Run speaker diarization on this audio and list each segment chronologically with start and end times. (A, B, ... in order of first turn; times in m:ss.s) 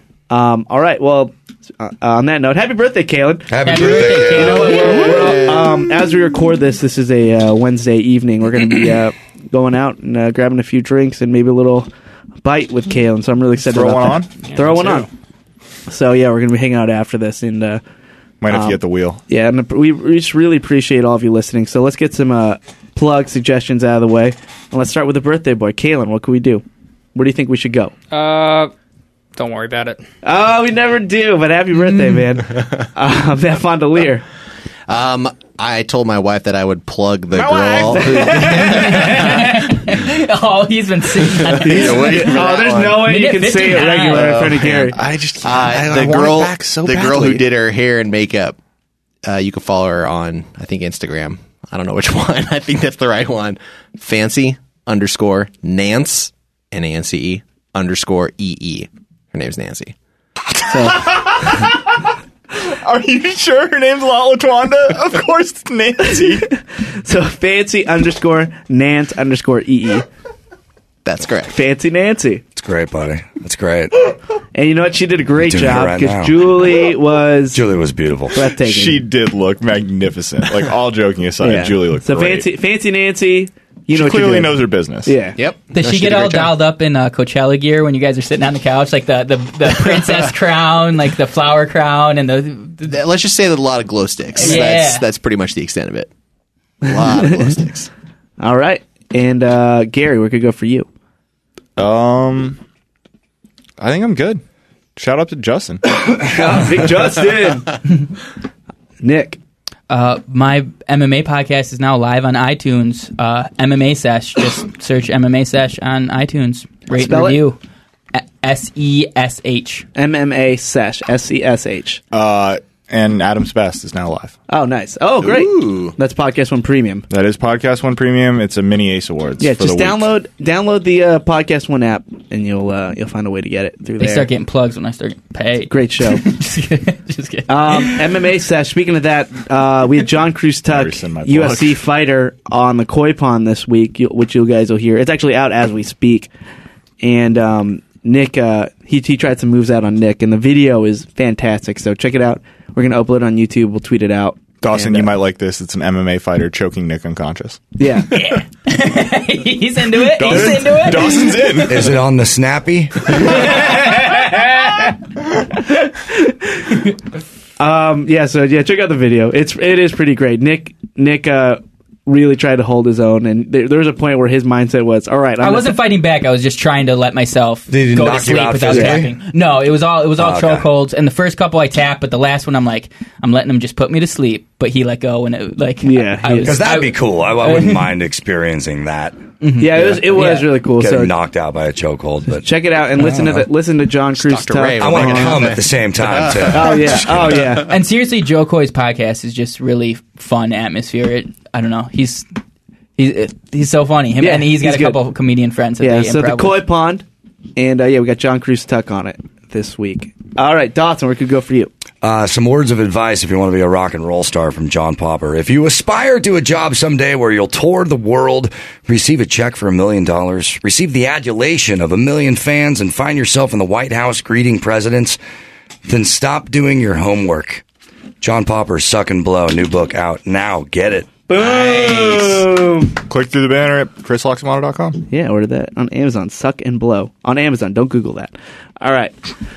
0:00.3-0:11.9 A
0:03.5-0:05.0 B
0:03.6-0:05.4 C
0:12.4-0:15.1 A
0:13.7-0:14.3 D
0:14.4-0:15.1 E
0:15.9-0:17.8 A
0:18.4-0:19.2 D
0:18.5-0:26.6 A
0:27.1-0:27.9 A
0:28.1-0:28.7 E
0:29.3-0:30.0 E
0:30.2-0:34.2 A
0:34.9-0:39.4 F
0:37.4-0:38.0 D
0:37.9-0:39.4 A
0:38.5-0:42.2 C
0:41.5-0:43.1 F
0:41.5-0:45.0 A
0:41.9-0:42.3 D
0:42.9-0:44.4 C
0:44.2-0:47.4 D
0:44.4-0:44.9 F
0:45.4-0:48.6 F
0:49.2-0:59.9 F
1:00.6-1:06.5 D
1:00.7-1:01.0 A
1:06.0-1:10.0 A
1:11.0-1:11.5 F
1:11.5-1:12.4 A
1:12.6-1:14.1 B
1:14.5-1:17.6 A
1:15.4-1:16.8 B
1:17.5-1:18.5 B
1:18.3-1:19.0 A
1:18.6-1:22.4 D
1:21.4-1:25.4 A
1:23.9-1:25.2 D
1:25.4-1:26.5 F
1:25.7-1:32.9 C
1:32.9-1:36.1 F
1:34.4-1:35.0 C
1:36.8-1:37.9 F
1:36.8-1:37.5 A
1:38.4-1:40.9 A
1:41.8-1:42.6 D
1:43.8-1:44.4 D
1:45.0-1:45.8 D
1:46.2-1:47.8 A
1:49.0-1:49.4 A
1:49.9-1:57.6 C
1:56.9-1:57.4 A
1:58.1-1:59.8 C
1:59.9-2:02.0 A
2:02.1-2:04.4 D
2:04.5-2:07.0 A
2:05.2-2:05.9 F
2:07.1-2:10.1 D
2:09.4-2:14.3 A
2:14.0-2:18.1 C
2:15.7-2:16.2 A
2:17.5-2:26.3 A
2:20.7-2:21.8 D
2:27.0-2:35.1 A
2:34.6-2:37.6 D
2:37.8-2:38.2 A
2:38.1-2:41.5 C
2:40.1-2:41.9 D
2:41.6-2:43.5 B
2:43.2-2:44.8 C
2:45.7-2:46.8 A
2:47.6-2:55.8 A
2:55.4-3:07.9 C
2:57.7-2:59.1 B
2:58.6-2:59.0 A
3:00.2-3:00.7 B
3:05.8-3:06.6 A
3:06.4-3:12.5 B
3:09.4-3:10.5 C
3:09.6-3:11.1 A
3:12.3-3:15.5 A
3:13.0-3:13.4 B
3:14.1-3:17.5 F
3:14.8-3:17.6 B
3:16.5-3:17.7 A
3:17.6-3:22.2 C
3:23.0-3:26.6 C
3:24.2-3:25.0 A
3:25.8-3:27.0 A
3:27.6-3:31.7 A
3:32.0-3:45.2 B
3:45.8-3:47.6 B
3:48.2-3:51.1 B
3:51.3-3:52.9 A
3:51.3-3:52.4 F
3:53.1-3:55.0 D
3:55.1-3:59.1 A